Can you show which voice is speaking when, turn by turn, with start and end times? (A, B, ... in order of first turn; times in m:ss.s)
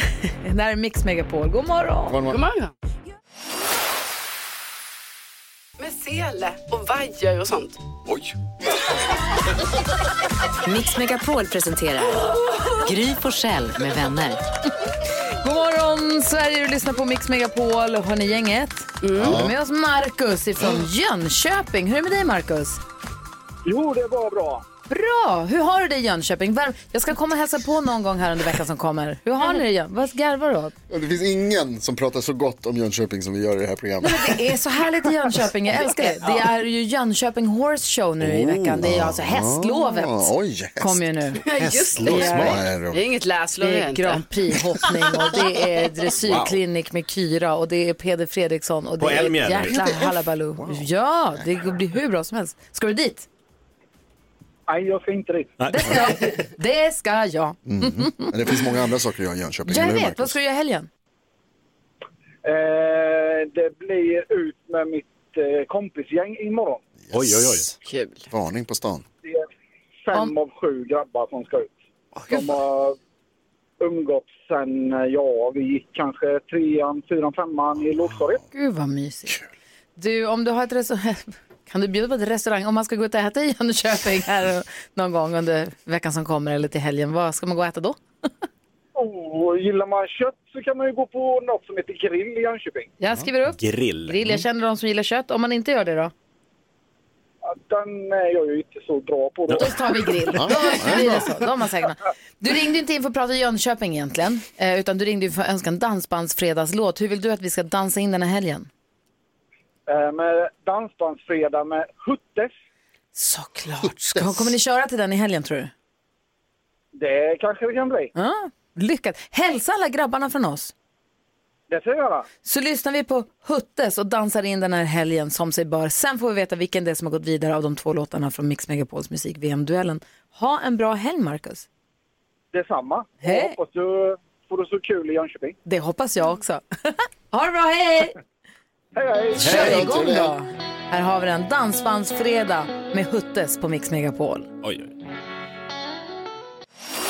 0:00.4-0:02.2 A
0:02.1-0:02.4 B
0:02.3-0:02.7 C
0:05.8-0:07.8 C
0:10.6-0:14.4 D
0:15.4-0:22.8 A
0:19.0-0:19.4 C
0:19.2-0:19.5 B
0:23.6-0:24.6 E
0:24.9-0:30.7 A
0:30.9-0:34.4 B
0:34.0-0:41.4 A
0:36.0-0:36.4 C
0:38.2-0:38.8 F
0:38.8-0:41.0 B
0:41.4-0:42.4 C
0:41.6-0:42.6 F
0:42.0-0:42.5 A
0:42.1-0:43.1 B
0:42.9-0:44.2 C
0:43.6-0:53.2 A
0:46.2-0:46.6 B
0:49.0-0:49.8 F
0:49.6-0:51.6 B
0:54.7-0:55.5 E
0:55.6-0:56.0 F
0:55.7-0:58.3 A
0:57.6-1:00.4 B
0:59.7-1:00.9 A
1:02.4-1:06.8 E
1:07.1-1:07.7 B
1:07.1-1:07.7 F
1:07.8-1:08.3 C
1:08.3-1:09.0 B
1:10.0-1:11.7 E
1:12.3-1:13.0 E
1:13.8-1:18.4 E
1:17.8-1:18.4 B
1:18.5-1:19.4 A
1:20.0-1:28.0 A
1:28.9-1:32.9 E
1:33.0-1:36.1 A
1:33.5-1:34.4 F
1:37.4-1:39.7 E
1:39.6-1:48.7 A
1:40.3-1:41.3 B
1:49.9-1:52.5 E
1:53.1-1:55.7 A
1:53.8-1:54.5 B
1:57.0-1:58.1 E
1:58.2-2:00.7 A
2:01.7-2:02.3 E
2:02.4-2:11.6 A
2:12.5-2:15.6 E
2:13.2-2:13.5 A
2:15.6-2:18.2 A
2:19.0-2:19.4 E
2:19.4-2:20.3 B
2:19.4-2:24.5 A
2:19.4-2:19.8 F
2:24.6-2:24.9 F